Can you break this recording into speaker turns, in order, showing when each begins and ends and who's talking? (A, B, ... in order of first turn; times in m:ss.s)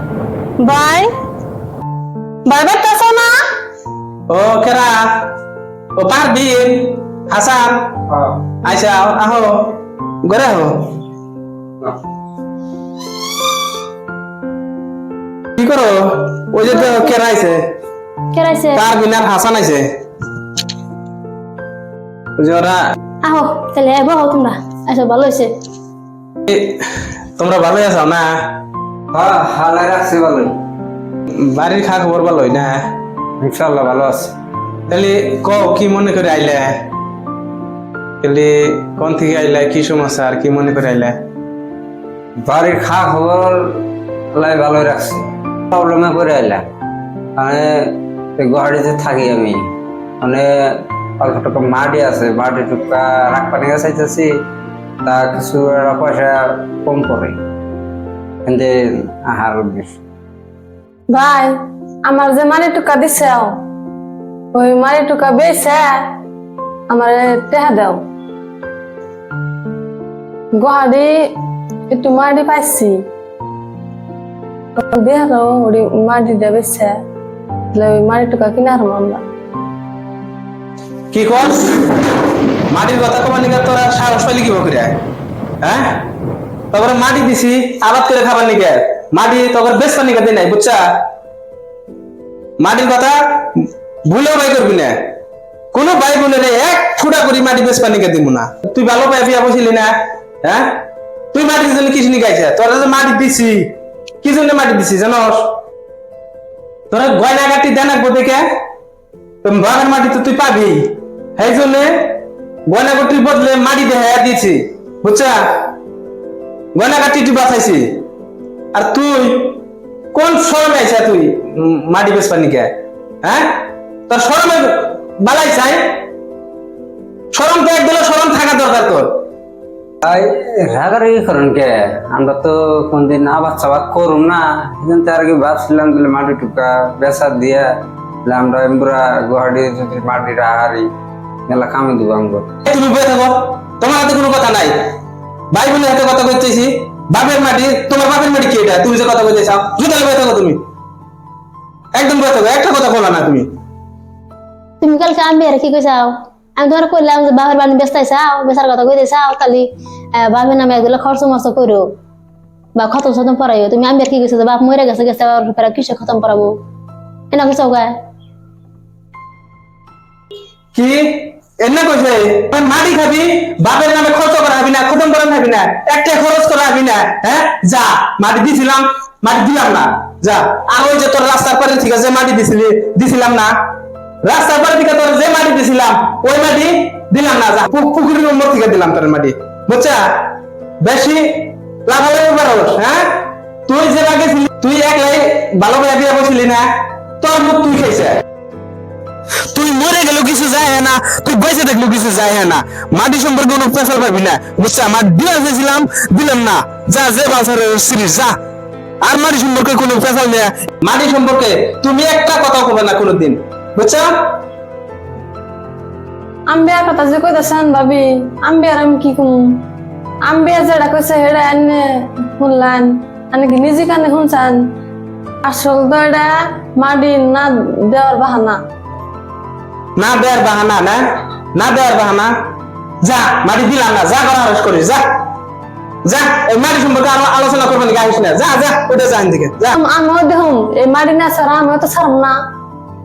0:00.6-0:01.1 A
0:02.4-0:03.4 A
0:04.3-0:05.2 B
0:06.0-0:07.9 B
0:08.6-0:10.9 B
0:15.6-0:17.6 B
0:18.3-0:18.8 C
0:18.7-0:19.9 B
0:22.4-0:22.8 B
0:23.2-0:25.5 C
0:26.4-0:28.4 B
0:29.1-0:30.6 D
0:31.4-0:32.9 B
0:33.4-0:34.3 D
0:34.9-0:36.8 B
0:38.2-0:41.2 B
0:42.4-0:46.6 D
0:47.4-0:49.7 D
0:50.2-0:54.3 D
0:55.0-0:57.4 D
0:58.4-1:00.0 D
1:01.1-1:01.5 A
1:02.0-1:03.6 A
1:04.5-1:06.0 A
1:06.9-1:08.0 A
1:10.5-1:11.4 A
1:11.9-1:13.0 A
1:14.8-1:17.0 A
1:17.7-1:19.2 A
1:21.1-1:22.0 B
1:22.7-1:25.0 B
1:25.6-1:26.0 B
1:26.7-1:30.9 B
1:32.6-1:35.0 B
1:35.7-1:40.8 B
1:41.3-1:45.5 B
1:46.9-1:48.4 B
1:49.4-1:52.1 B
1:52.7-1:55.4 B
1:56.7-1:57.9 B
1:58.7-1:59.6 B
2:00.1-2:02.7 B
2:03.2-2:03.6 B
2:04.1-2:05.8 B
2:07.3-2:09.1 B
2:10.0-2:17.7 D
2:18.2-2:20.9 D
2:21.5-2:22.5 D
2:22.6-2:24.9 B
2:25.5-2:30.6 B
2:31.9-2:33.5 B
2:34.8-2:41.9 C
2:42.7-2:46.6 C
2:47.3-2:47.9 C
2:50.7-3:03.6 B
3:04.2-3:10.3 B
3:10.8-3:13.1 B
3:13.7-3:16.7 B
3:17.2-3:18.2 B
3:19.5-3:28.4 B
3:29.0-3:34.2 B
3:36.5-3:39.6 A
3:40.2-3:44.7 A
3:45.4-3:48.6 A
3:50.0-3:52.3 B
3:53.0-3:55.1 B
3:56.0-3:59.8 B
3:59.7-4:02.4 A